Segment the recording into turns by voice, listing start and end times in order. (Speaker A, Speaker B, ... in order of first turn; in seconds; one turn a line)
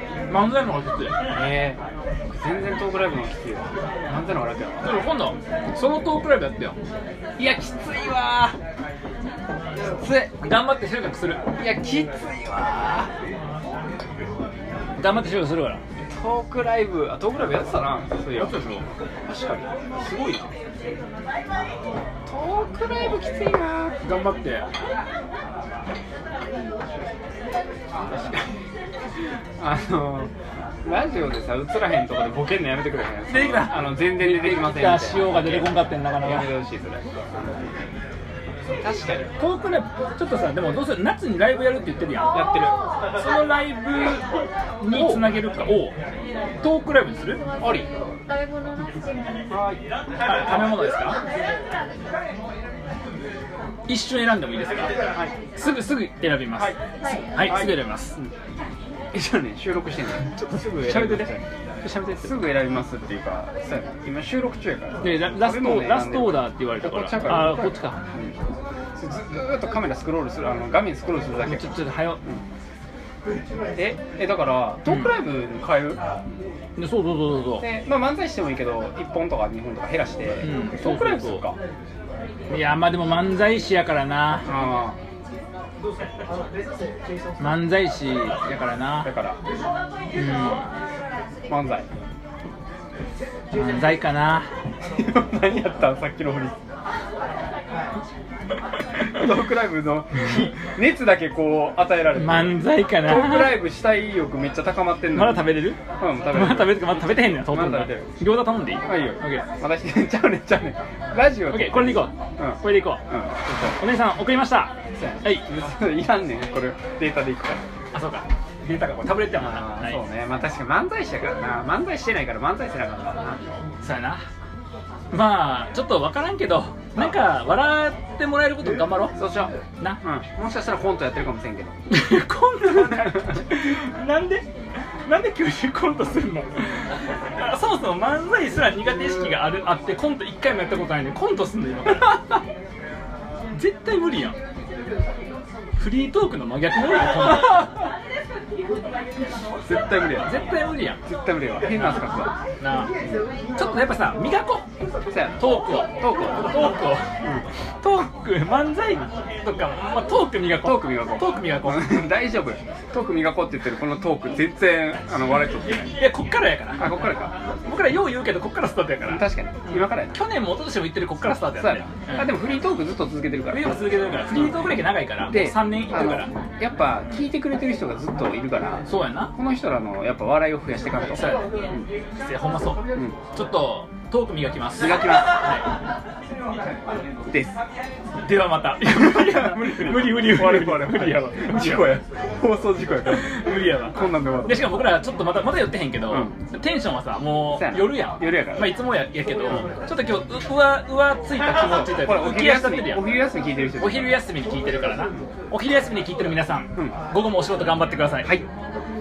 Speaker A: 0.3-1.2
Speaker B: 1.3-5.0
Speaker A: 4.8-6.8
Speaker B: 7.4-8.6
Speaker B: 9.8-10.4
Speaker A: 10.4-11.4
Speaker B: 11.6-13.1
Speaker A: 15.0-15.8
Speaker B: 16.1-18.7
Speaker A: 18.4-18.9
Speaker B: 19.3-20.5
Speaker B: 22.3-24.0
Speaker A: 24.0-24.7
Speaker B: 27.9-28.5
Speaker B: 29.6-30.3
Speaker B: 30.9-37.5
Speaker A: 33.3-36.5
Speaker B: 38.7-39.3
Speaker A: 39.4-42.5
Speaker B: 42.3-42.8
Speaker A: 43.2-46.0
Speaker B: 44.9-45.3
Speaker A: 46.6-47.4
Speaker B: 47.6-47.9
Speaker B: 49.5-50.7
Speaker A: 50.2-51.2
Speaker A: 53.9-54.9
Speaker A: 55.6-56.8
Speaker B: 56.6-58.3
Speaker A: 57.3-58.2
Speaker B: 59.1-61.5
Speaker A: 60.3-62.4
Speaker B: 62.1-68.4
Speaker A: 65.0-68.0
Speaker B: 69.0-72.4
Speaker A: 71.5-72.2
Speaker B: 73.8-76.0
Speaker A: 76.8-77.7
Speaker B: 77.6-81.6
Speaker A: 80.4-81.5
Speaker A: 82.5-84.5
Speaker B: 84.5-85.0
Speaker A: 87.4-89.1
Speaker B: 89.0-89.4
Speaker A: 90.1-90.7
Speaker B: 91.5-91.9
Speaker A: 93.5-94.5
Speaker B: 94.8-96.6
Speaker B: 99.1-108.1
Speaker A: 102.2-103.6
Speaker A: 105.1-109.5
Speaker B: 108.8-113.8
Speaker A: 111.5-113.0
Speaker A: 113.5-115.5
Speaker B: 115.0-117.6
Speaker A: 117.9-120.0
Speaker B: 119.3-123.5
Speaker A: 123.8-124.2
Speaker A: 125.1-129.2
Speaker B: 129.2-131.8
Speaker A: 131.9-134.5
Speaker B: 132.8-133.4
Speaker A: 135.1-142.4
Speaker A: 143.5-144.4
Speaker A: 145.8-147.8
Speaker B: 149.6-150.4
Speaker A: 150.2-151.0
Speaker B: 151.0-152.3
Speaker A: 151.7-152.1
Speaker A: 152.6-152.9
Speaker A: 153.6-154.7
Speaker B: 155.1-156.7
Speaker A: 155.4-157.1
Speaker A: 157.8-162.1
Speaker B: 160.5-166.0
Speaker A: 166.0-167.1
Speaker B: 166.8-167.4
Speaker A: 167.7-172.3
Speaker B: 169.1-170.2
Speaker B: 171.2-181.9
Speaker A: 173.5-176.3
Speaker A: 178.9-179.3
Speaker A: 181.0-181.5
Speaker A: 182.2-185.7
Speaker B: 184.8-185.5
Speaker B: 187.3-187.6
Speaker A: 188.2-192.0
Speaker B: 188.8-194.8
Speaker A: 193.1-203.1
Speaker B: 196.1-196.4
Speaker B: 197.5-198.8
Speaker B: 201.4-204.2
Speaker A: 203.8-208.4